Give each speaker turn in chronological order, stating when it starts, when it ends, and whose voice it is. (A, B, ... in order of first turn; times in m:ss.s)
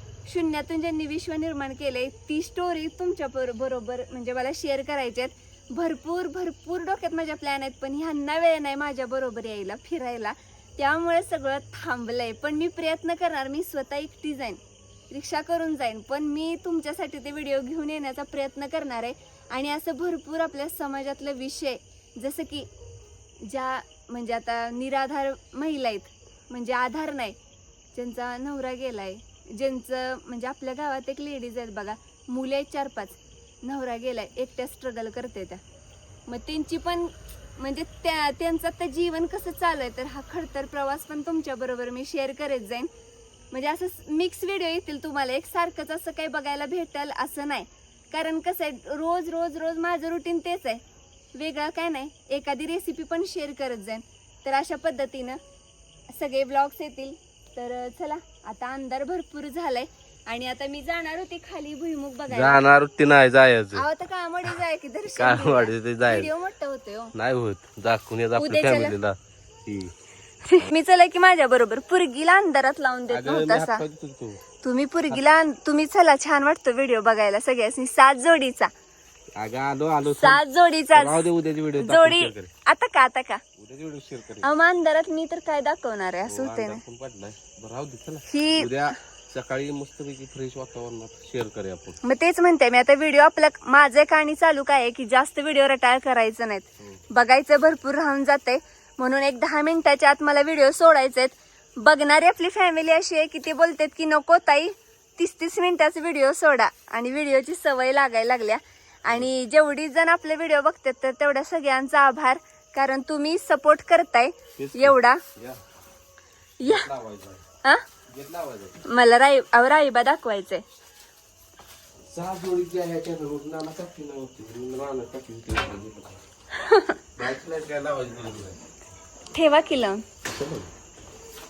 0:00.2-0:22.7 A
0:23.4-0:27.4 A
0:27.9-0:35.6 A
0:36.3-0:42.9 A
0:43.5-0:50.8 A
0:51.3-0:55.4 A
0:56.1-1:02.6 A
1:02.3-1:03.8 B
1:03.7-1:07.1 A
1:05.2-1:06.3 B
1:07.1-1:09.9 B
1:08.4-1:08.9 A
1:10.5-1:13.8 A
1:13.1-1:14.4 B
1:14.6-1:18.7 A
1:19.4-1:20.4 B
1:20.0-1:21.3 A
1:20.9-1:22.5 B
1:21.8-1:23.4 A
1:23.6-1:24.5 B
1:24.4-1:26.8 A
1:26.2-1:32.0 B
1:28.3-1:28.7 A
1:32.0-1:55.2 A
1:54.6-1:55.6 B
1:56.6-1:56.9 A
1:56.6-1:57.4 B
1:58.1-1:58.8 B
1:58.8-2:00.6 A
2:02.1-2:06.2 B
2:06.5-2:07.0 A
2:07.2-2:08.6 B
2:09.3-2:10.0 A
2:10.3-2:10.7 B